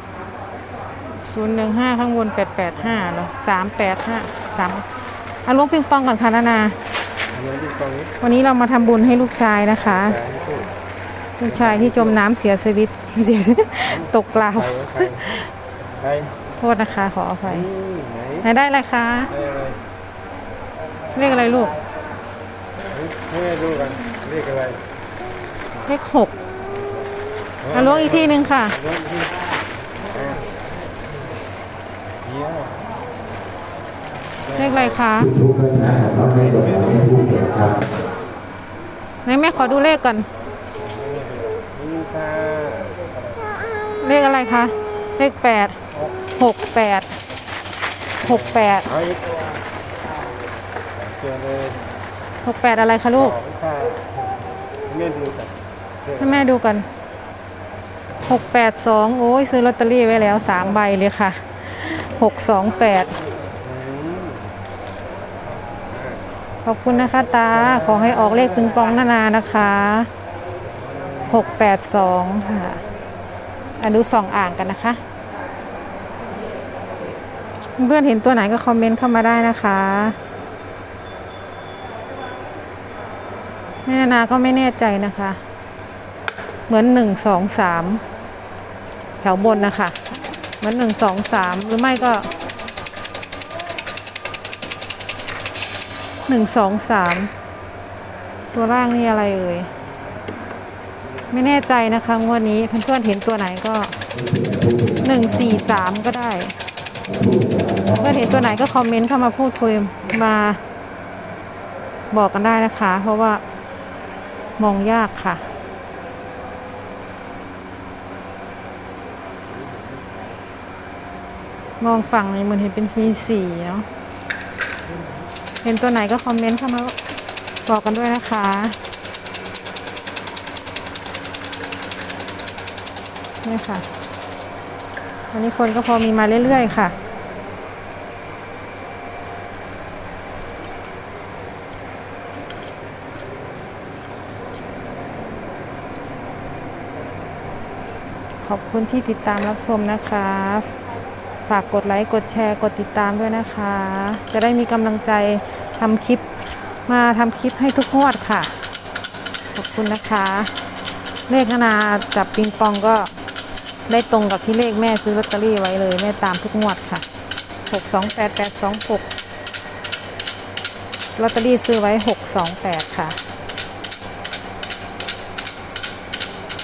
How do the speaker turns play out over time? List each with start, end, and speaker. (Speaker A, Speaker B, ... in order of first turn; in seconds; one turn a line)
Speaker A: 1.2-4.9
Speaker A: 5.4-6.8
Speaker B: 7.3-8.1
Speaker A: 8.2-10.2
Speaker B: 10.1-10.7
Speaker A: 11.4-15.5
Speaker B: 11.5-12.1
Speaker B: 13.9-15.2
Speaker B: 16.0-16.3
Speaker A: 16.6-17.6
Speaker B: 17.5-18.4
Speaker A: 18.4-19.3
Speaker B: 19.3-19.8
Speaker A: 21.1-21.8
Speaker B: 22.9-24.8
Speaker A: 25.9-26.3
Speaker B: 27.6-28.3
Speaker A: 27.7-28.8
Speaker B: 28.8-29.3
Speaker B: 32.2-32.8
Speaker B: 34.5-34.8
Speaker A: 34.6-35.3
Speaker C: 35.2-37.9
Speaker A: 39.2-40.3
Speaker B: 40.8-43.4
Speaker A: 44.0-45.8
Speaker A: 46.4-47.0
Speaker A: 48.2-48.9
Speaker B: 48.3-49.3
Speaker B: 51.0-51.8
Speaker A: 52.4-53.4
Speaker B: 53.2-54.1
Speaker B: 54.9-55.5
Speaker A: 56.2-56.9
Speaker A: 58.3-63.1
Speaker B: 63.6-64.5
Speaker B: 65.9-66.2
Speaker A: 66.6-70.1
Speaker A: 71.3-72.8
Speaker A: 73.8-75.0
Speaker A: 77.8-80.1
Speaker A: 83.9-85.4
Speaker A: 86.7-88.0
Speaker A: 89.2-90.0
Speaker A: 90.6-92.2
Speaker A: 96.3-97.3
Speaker A: 98.5-99.7
Speaker A: 101.3-103.9
Speaker C: 104.1-105.6
Speaker A: 105.0-106.5
Speaker C: 107.1-108.5
Speaker A: 107.9-110.6
Speaker A: 112.1-113.4
Speaker A: 114.6-115.4
Speaker B: 119.6-120.3
Speaker A: 121.8-123.9
Speaker A: 125.6-126.9
Speaker A: 127.7-128.8
Speaker A: 133.4-133.8
Speaker A: 135.3-136.9
Speaker A: 148.4-150.7
Speaker A: 151.5-156.2
Speaker A: 156.9-158.5
Speaker A: 159.6-160.5
Speaker A: 161.3-163.1
Speaker A: 163.9-167.0
Speaker A: 167.7-169.1
Speaker A: 171.2-173.2